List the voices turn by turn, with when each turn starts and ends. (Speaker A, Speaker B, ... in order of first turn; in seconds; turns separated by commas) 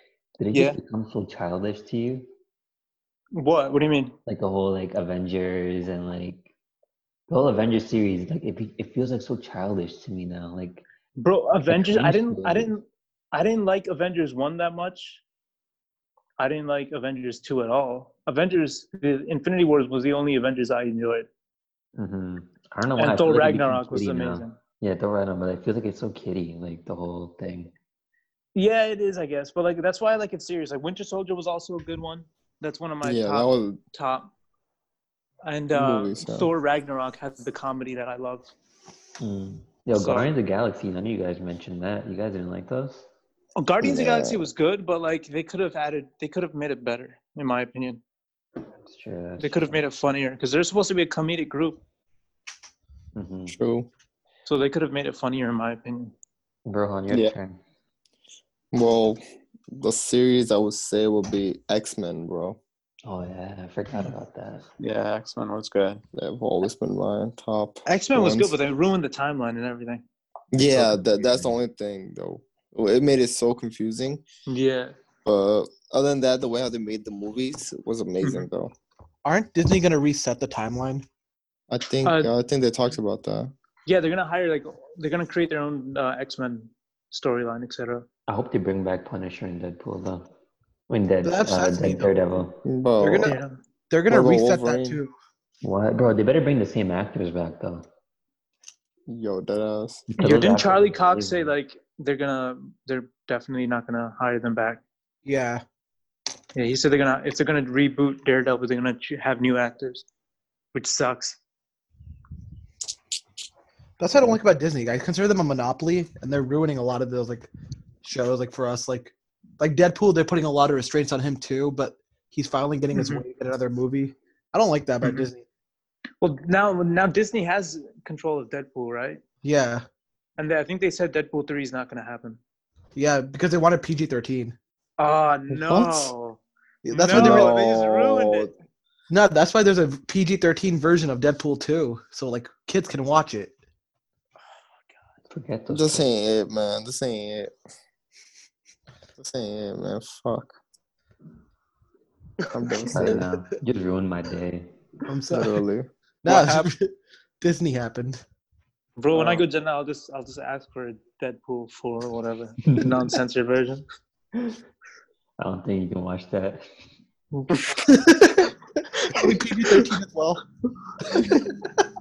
Speaker A: 0.4-2.3, Speaker B: 0.5-0.8, Speaker B: 3.3-4.1, Speaker A: 4.2-6.5, Speaker A: 7.3-10.8, Speaker B: 11.2-15.2, Speaker A: 11.7-12.7, Speaker B: 16.4-21.3, Speaker A: 21.9-27.7, Speaker B: 23.0-24.6, Speaker B: 28.5-34.3, Speaker C: 33.0-33.8, Speaker B: 35.4-38.5, Speaker C: 35.7-36.5, Speaker A: 39.2-43.1, Speaker B: 39.9-40.3, Speaker B: 43.6-48.0, Speaker C: 43.8-44.5, Speaker A: 48.8-49.8, Speaker B: 49.4-51.8, Speaker A: 53.1-53.6, Speaker C: 53.5-53.9, Speaker B: 54.5-56.1, Speaker A: 56.6-57.6, Speaker D: 57.1-57.3, Speaker C: 58.7-59.2, Speaker C: 59.7-62.6, Speaker A: 63.0-64.7, Speaker D: 64.8-66.0, Speaker C: 66.1-68.5, Speaker B: 67.8-70.0, Speaker C: 70.5-74.2, Speaker B: 74.5-74.9, Speaker C: 75.2-78.7, Speaker E: 79.2-81.0, Speaker C: 81.7-83.5, Speaker B: 82.0-82.3, Speaker B: 83.8-88.0, Speaker A: 88.3-90.3, Speaker A: 90.9-92.6, Speaker E: 91.2-92.1, Speaker C: 92.6-93.3, Speaker E: 93.0-93.3, Speaker B: 93.2-93.5, Speaker E: 93.9-95.1, Speaker C: 94.1-95.0, Speaker A: 95.6-97.9, Speaker C: 99.1-100.1, Speaker A: 100.1-101.5, Speaker B: 100.2-104.8, Speaker E: 105.2-105.6, Speaker B: 106.5-110.0, Speaker B: 110.7-111.4, Speaker E: 114.0-117.5, Speaker E: 118.0-125.4, Speaker B: 122.9-123.2, Speaker B: 125.0-125.3, Speaker B: 126.2-129.2, Speaker E: 129.4-129.8, Speaker B: 130.4-132.4, Speaker E: 132.9-134.6, Speaker B: 135.0-138.5, Speaker C: 135.5-136.1, Speaker E: 136.8-137.5, Speaker C: 137.1-138.5, Speaker E: 139.1-143.5, Speaker A: 145.3-146.1, Speaker C: 145.7-147.5, Speaker C: 149.2-150.6, Speaker C: 152.5-153.2, Speaker A: 152.9-154.7, Speaker E: 155.1-155.6, Speaker C: 155.3-155.9, Speaker E: 156.2-158.2, Speaker D: 156.3-156.7, Speaker B: 159.0-163.8, Speaker C: 159.1-159.4, Speaker A: 165.4-166.6, Speaker B: 167.3-167.6, Speaker E: 167.8-170.4, Speaker E: 171.1-171.7